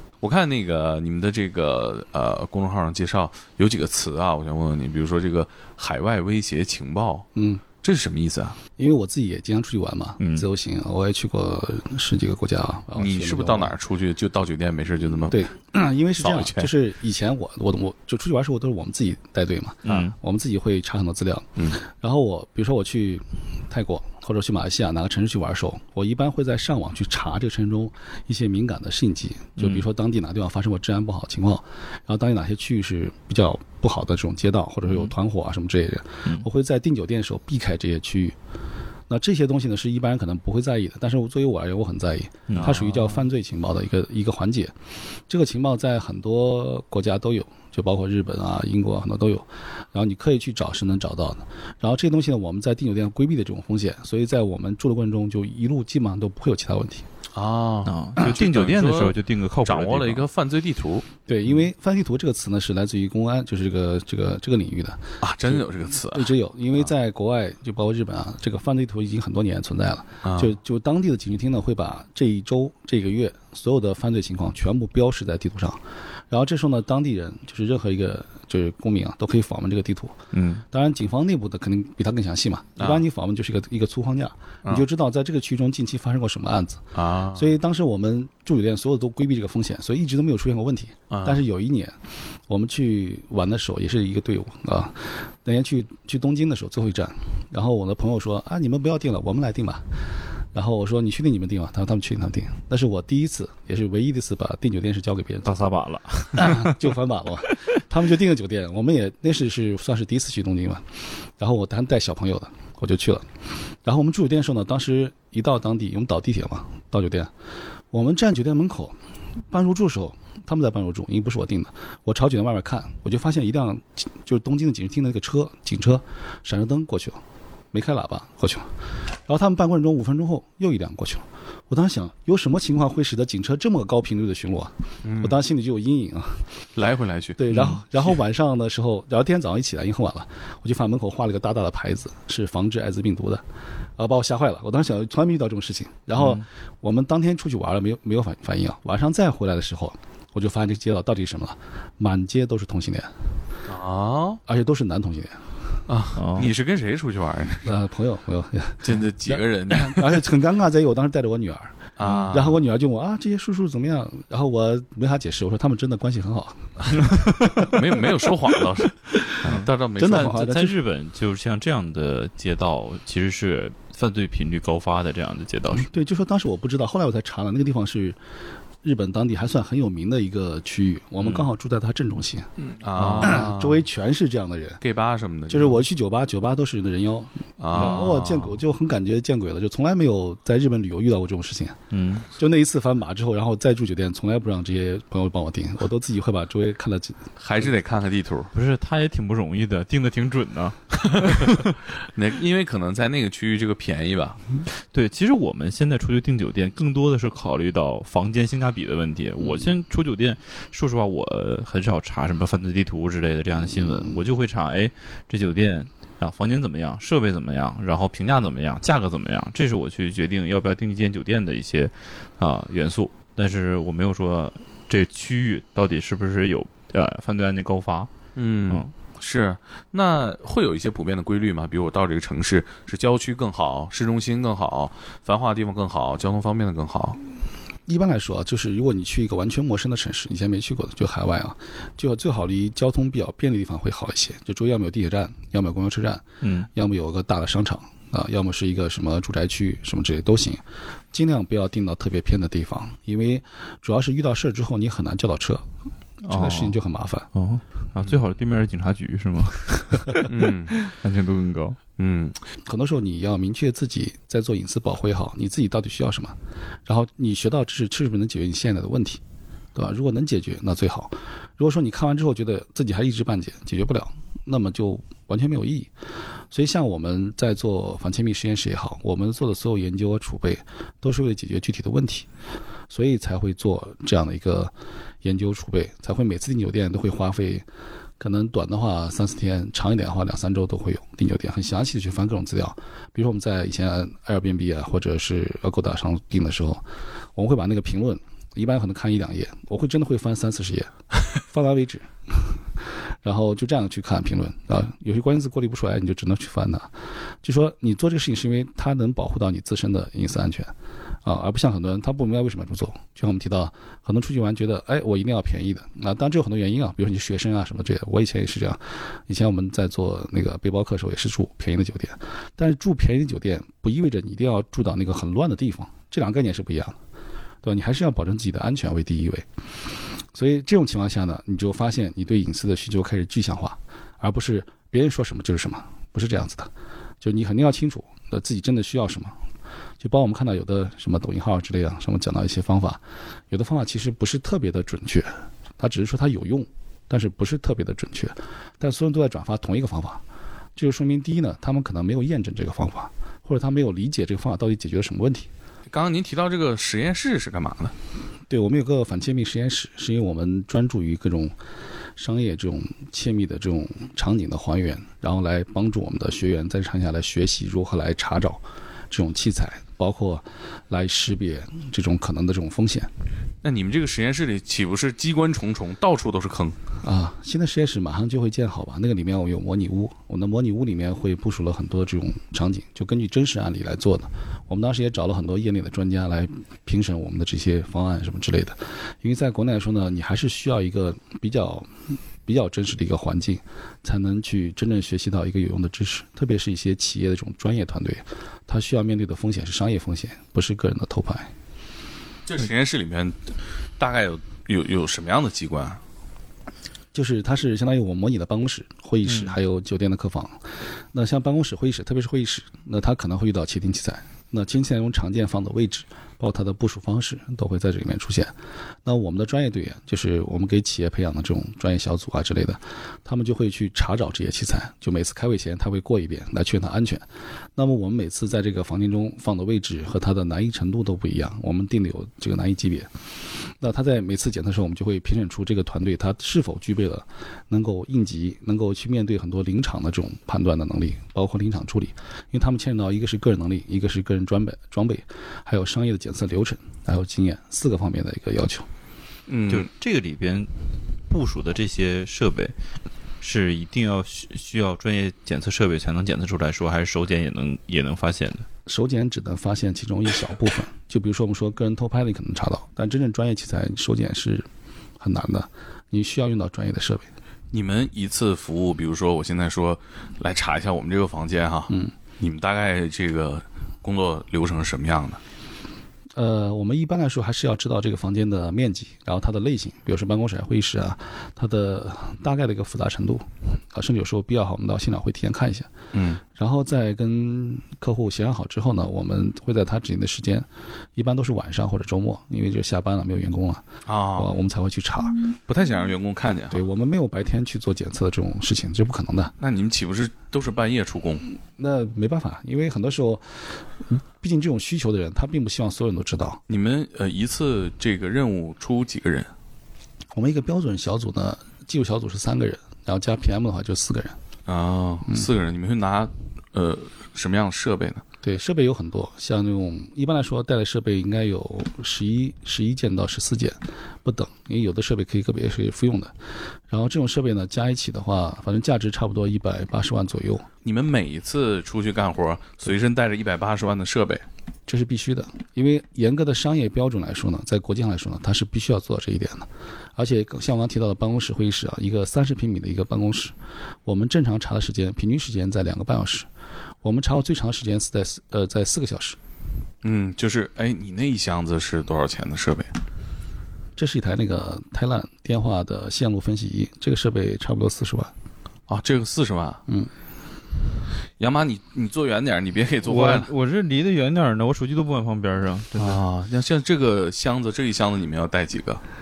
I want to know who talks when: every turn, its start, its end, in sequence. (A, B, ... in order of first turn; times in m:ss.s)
0:00.2-0:07.3 A
0:07.4-0:07.6 B
0:07.8-0:08.6 A
0:08.8-0:13.7 B
0:10.2-0:10.5 C
0:13.0-0:15.5 A
0:15.3-0:38.4 B
0:16.2-0:16.7 A
0:19.8-0:20.2 C
0:29.6-0:29.9 C
0:34.9-0:35.1 C
0:39.1-0:44.8 B
0:42.5-0:42.8 C
0:42.6-0:43.2 A
0:45.3-0:57.1 B
0:57.3-1:01.1 A
0:57.8-1:00.2 C
1:01.3-1:32.0 B
1:05.2-1:06.3 A
1:10.2-1:10.6 A
1:22.8-1:23.0 A
1:26.9-1:27.5 A
1:31.1-1:31.4 A
1:32.5-1:45.6 B
1:45.4-1:46.9 C
1:46.4-1:57.3 B
1:57.9-1:59.0 B
1:59.5-2:07.2 B
2:07.7-2:08.7 B
2:09.3-2:16.4 B
2:15.0-2:15.4 A
2:16.8-2:17.4 A
2:17.4-2:23.4 B
2:17.5-2:17.8 C
2:24.0-2:33.1 B
2:26.2-2:26.4 C
2:33.7-2:34.4 A
2:34.5-2:35.4 B
2:35.9-2:37.7 A
2:36.2-2:36.5 C
2:37.6-2:41.8 B
2:38.8-2:40.2 A
2:42.0-2:42.6 A
2:42.3-2:47.7 B
2:47.6-2:50.5 A
2:49.5-2:55.9 C
2:50.0-2:50.8 B
2:55.8-2:58.2 B
2:58.8-3:04.8 B
3:02.6-3:03.8 A
3:04.8-3:05.8 A
3:05.5-3:11.8 B
3:07.6-3:08.5 A
3:11.9-3:12.3 C
3:12.3-3:17.2 B
3:17.4-3:18.5 A
3:18.5-3:21.7 C
3:21.0-3:24.4 A
3:24.9-3:48.1 C
3:48.4-3:57.2 A
3:57.9-4:15.6 B
4:06.4-4:06.7 C
4:16.3-4:17.3 B
4:16.3-4:16.8 C
4:17.4-4:21.8 C
4:20.2-4:20.8 A
4:22.0-4:22.4 A
4:22.6-4:29.2 B
4:29.8-4:35.9 B
4:36.5-4:42.3 B
4:42.9-4:47.6 B
4:48.2-5:10.7 B
5:11.2-5:27.0 B
5:27.6-5:29.5 B
5:30.3-5:39.4 B
5:40.0-5:50.2 B
5:50.8-5:55.5 B
5:55.9-5:57.9 A
5:58.5-6:01.6 B
6:02.2-6:13.1 B
6:13.6-6:16.8 A
6:17.0-6:41.5 B
6:42.5-6:43.4 A
6:44.0-6:46.0 A
6:47.1-6:58.5 B
6:49.3-6:49.6 C
6:59.0-7:13.1 B
7:13.8-7:28.9 B
7:29.5-7:29.9 A
7:29.7-7:30.7 C
7:31.3-7:32.7 C
7:33.4-7:38.7 C
7:38.9-7:44.7 B
7:45.2-7:47.3 B
7:47.7-7:55.4 A
7:56.4-8:05.9 B
8:06.1-8:06.4 A
8:06.5-8:13.8 B
8:14.1-8:14.5 A
8:14.4-8:15.4 B
8:15.7-8:16.8 A
8:16.7-8:19.6 B
8:19.6-8:21.4 A
8:21.8-8:26.6 B
8:26.7-8:29.5 A
8:30.3-8:34.4 B
8:34.7-8:38.2 A
8:38.4-8:46.3 B
8:46.9-8:50.7 B
8:50.8-8:54.4 A
8:54.9-9:06.5 B
9:07.0-9:09.4 B
9:10.0-9:12.9 A
9:14.0-9:18.3 B
9:18.9-9:19.8 A
9:21.4-9:23.5 A
9:23.0-9:26.2 C
9:26.0-9:29.0 A